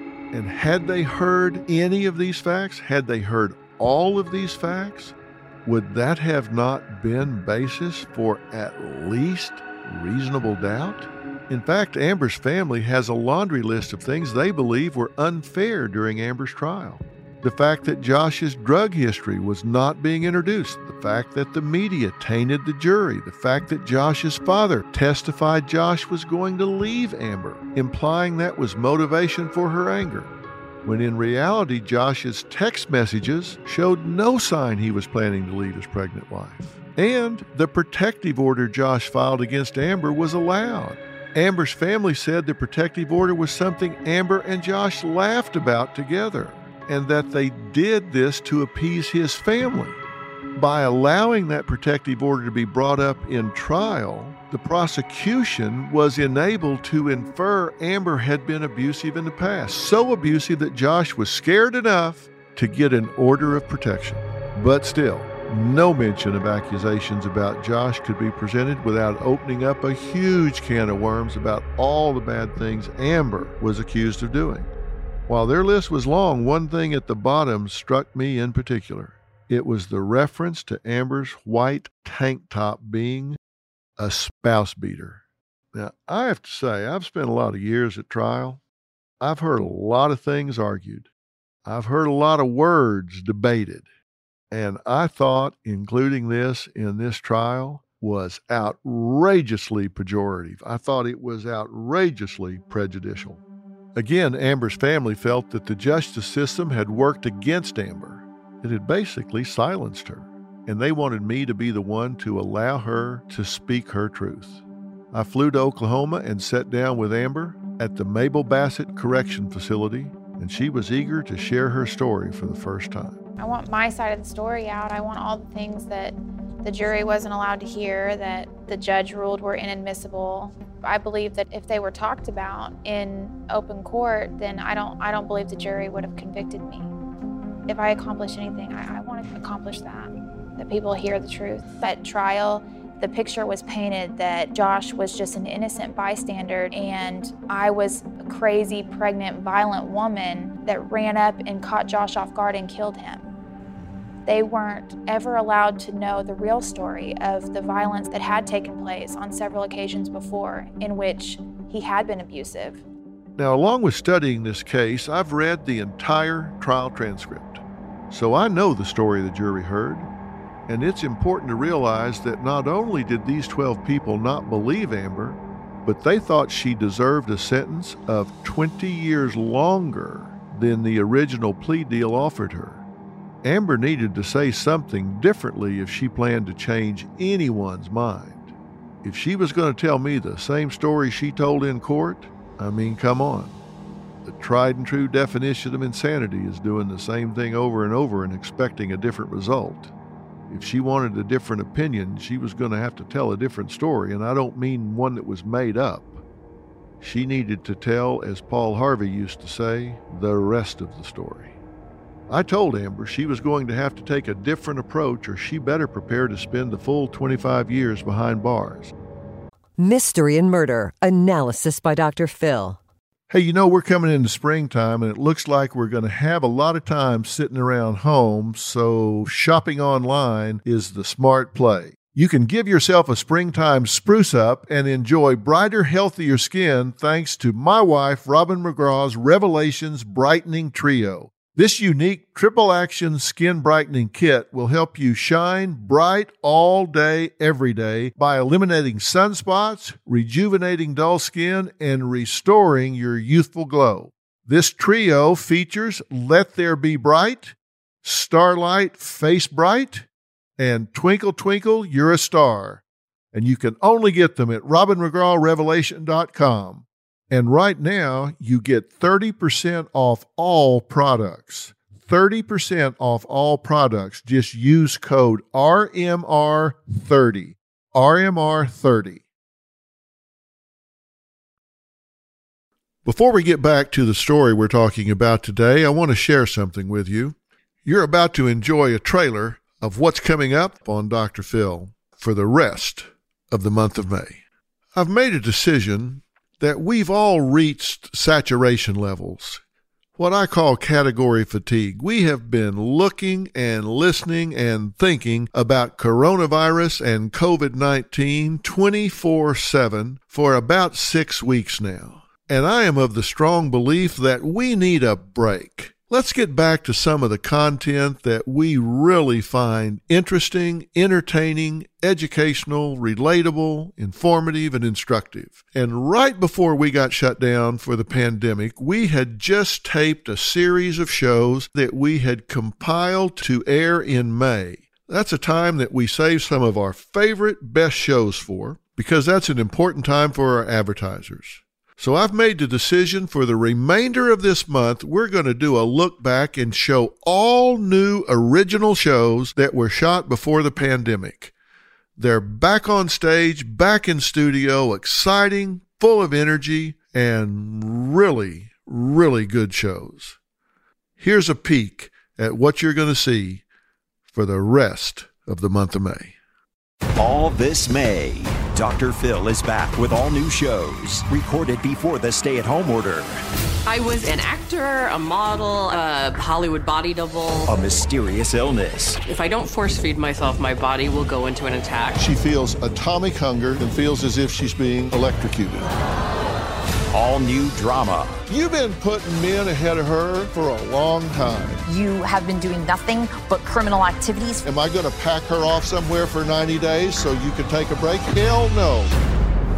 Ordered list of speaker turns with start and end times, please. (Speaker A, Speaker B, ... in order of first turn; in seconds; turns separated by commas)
Speaker A: 0.3-50.0, Speaker A: 50.5-74.7, Speaker A: 75.3-83.4, Speaker A: 84.0-85.2, Speaker A: 85.7-88.6, Speaker A: 89.2-91.1, Speaker A: 91.6-93.9, Speaker A: 94.5-103.4, Speaker A: 103.9-114.6, Speaker A: 115.1-123.2, Speaker B: 123.4-136.9, Speaker B: 137.7-153.3, Speaker A: 153.8-154.1, Speaker B: 154.2-162.8, Speaker A: 163.4-170.1, Speaker A: 170.7-182.8, Speaker A: 183.4-188.5, Speaker A: 189.0-193.6, Speaker A: 194.2-199.9, Speaker A: 200.5-206.2, Speaker A: 207.0-211.5, Speaker A: 212.3-218.9, Speaker C: 219.8-222.8, Speaker A: 223.3-260.1, Speaker A: 260.6-262.8, Speaker A: 263.3-279.2, Speaker A: 283.0-294.4, Speaker A: 294.9-299.6, Speaker A: 300.2-351.5, Speaker A: 352.2-360.4, Speaker A: 361.2-363.6, Speaker A: 364.3-366.4, Speaker D: 367.2-373.4, Speaker E: 373.9-377.7, Speaker D: 377.7-379.2, Speaker E: 379.2-382.2, Speaker A: 382.2-385.9, Speaker D: 387.1-388.4, Speaker A: 388.5-391.8, Speaker F: 391.9-394.6, Speaker A: 394.6-399.1